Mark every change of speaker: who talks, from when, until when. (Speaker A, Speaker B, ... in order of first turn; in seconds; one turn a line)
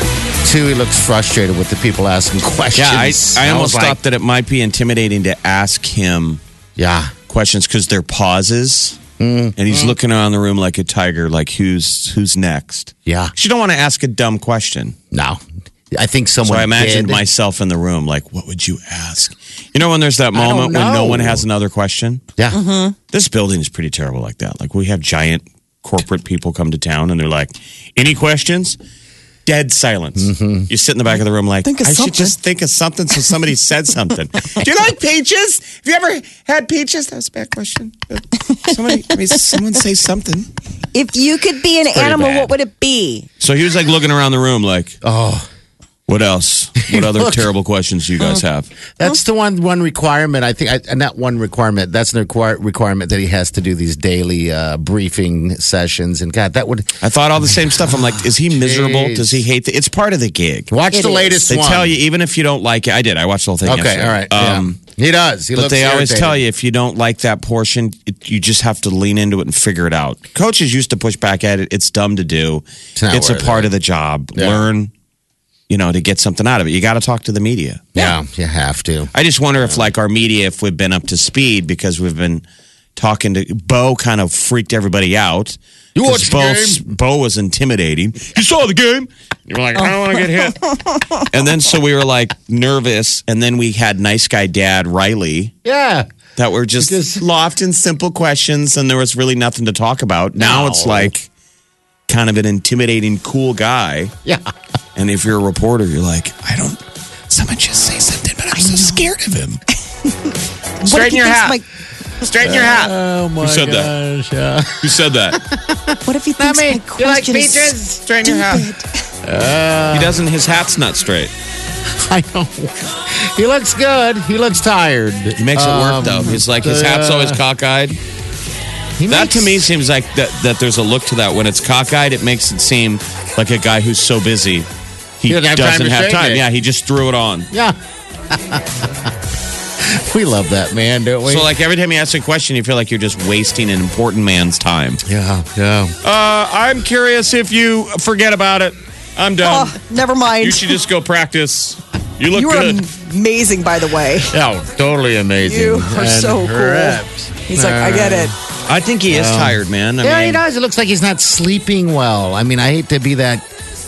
Speaker A: 0.4-4.0
Speaker B: 2.7-6.4
Speaker A: 6.8-7.1
Speaker B: 7.3-9.0
Speaker A: 9.2-9.9
Speaker B: 9.6-14.9
Speaker A: 13.1-13.3
Speaker A: 15.1-17.2
Speaker B: 16.4-22.2
Speaker A: 20.3-21.4
Speaker C: 22.5-22.9
Speaker B: 23.1-28.8
Speaker B: 29.4-40.5
Speaker A: 30.2-30.7
Speaker C: 31.6-32.4
Speaker C: 40.9-43.3
Speaker B: 41.9-42.5
Speaker B: 43.4-45.0
Speaker A: 45.0-45.5
Speaker B: 46.1-48.7
Speaker A: 46.9-47.5
Speaker A: 49.0-59.4
Speaker B: 57.0-60.7
Speaker A: 60.7-61.9
Speaker C: 60.9-61.4
Speaker B: 61.5-64.8
Speaker A: 63.6-66.4
Speaker B: 65.5-74.9
Speaker A: 73.0-73.7
Speaker A: 74.3-74.7
Speaker B: 75.7-77.9
Speaker A: 77.9-79.8
Speaker B: 79.1-82.4
Speaker B: 83.0-90.6
Speaker A: 85.9-86.8
Speaker A: 89.8-90.5
Speaker B: 91.3-95.5
Speaker A: 95.6-96.1
Speaker B: 96.4-101.2
Speaker A: 96.8-97.2
Speaker A: 100.3-101.1
Speaker B: 102.1-104.1
Speaker B: 105.0-109.6
Speaker C: 108.5-109.0
Speaker C: 110.0-111.6
Speaker B: 110.8-111.6
Speaker B: 112.2-113.9
Speaker A: 112.4-118.0
Speaker B: 114.8-115.4
Speaker C: 116.0-118.8
Speaker B: 117.8-118.7
Speaker A: 119.2-120.2
Speaker B: 119.9-121.3
Speaker A: 121.9-127.4
Speaker B: 125.3-128.0
Speaker A: 129.0-129.6
Speaker B: 129.1-134.7
Speaker B: 135.2-137.5
Speaker A: 135.3-136.4
Speaker A: 137.5-137.8
Speaker A: 138.3-139.1
Speaker A: 139.8-141.5
Speaker B: 141.2-145.0
Speaker A: 145.0-145.9
Speaker B: 146.0-149.8
Speaker C: 149.4-150.8
Speaker B: 150.4-152.8
Speaker C: 152.3-154.3
Speaker A: 154.3-158.3
Speaker C: 155.4-158.3
Speaker B: 158.7-160.4
Speaker A: 159.1-163.4